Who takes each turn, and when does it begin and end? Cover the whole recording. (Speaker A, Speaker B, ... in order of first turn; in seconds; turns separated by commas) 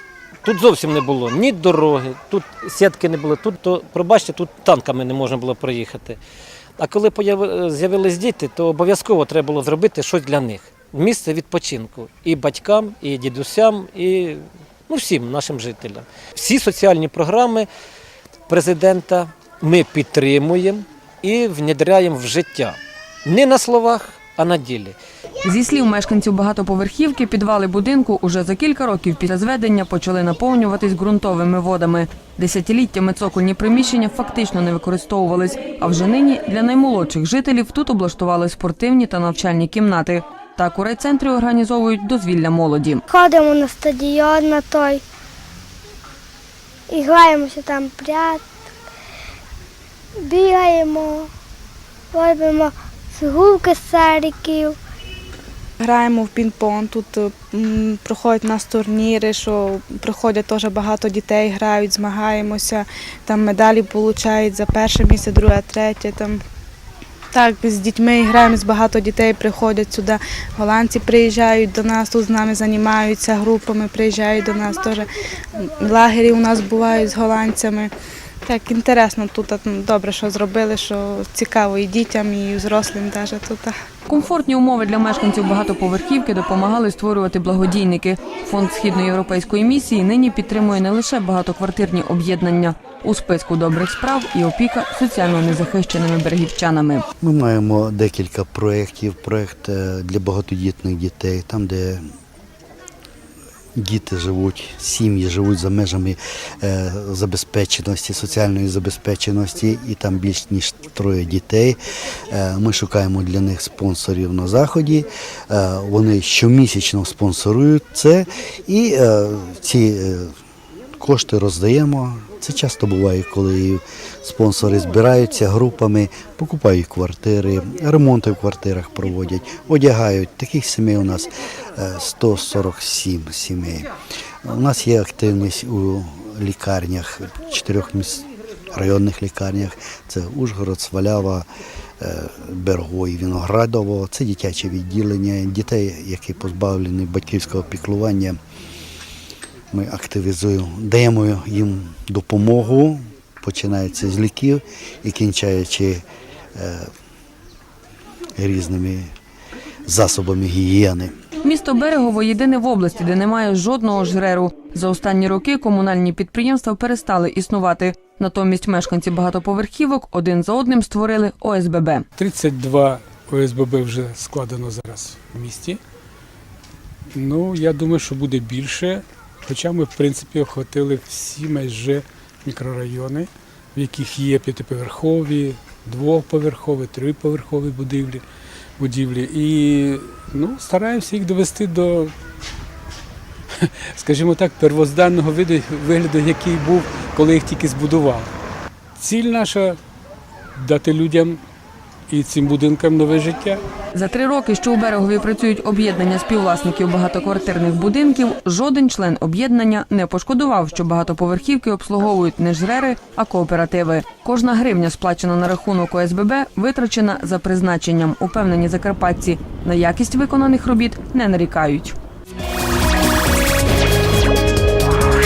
Speaker A: 0.4-6.2, Speaker A: 6.8-17.7, Speaker A: 18.5-24.9, Speaker B: 25.4-43.0, Speaker C: 43.1-45.0, Speaker C: 46.9-48.4, Speaker C: 50.2-51.3, Speaker C: 52.1-54.8, Speaker D: 55.8-66.4, Speaker D: 67.3-77.9, Speaker D: 78.4-83.8, Speaker B: 84.1-97.0, Speaker E: 97.2-102.1, Speaker E: 103.8-111.8, Speaker E: 112.3-120.3, Speaker E: 121.0-133.9, Speaker E: 134.4-141.5, Speaker E: 142.0-148.4, Speaker E: 149.7-156.0, Speaker E: 156.6-156.9, Speaker E: 158.4-159.1, Speaker E: 159.9-161.1, Speaker B: 161.4-172.0, Speaker F: 172.2-175.8, Speaker F: 177.1-188.2, Speaker F: 188.8-192.1, Speaker F: 193.6-198.3, Speaker F: 199.0-199.8, Speaker F: 200.6-201.4, Speaker F: 202.1-203.6, Speaker B: 203.9-221.9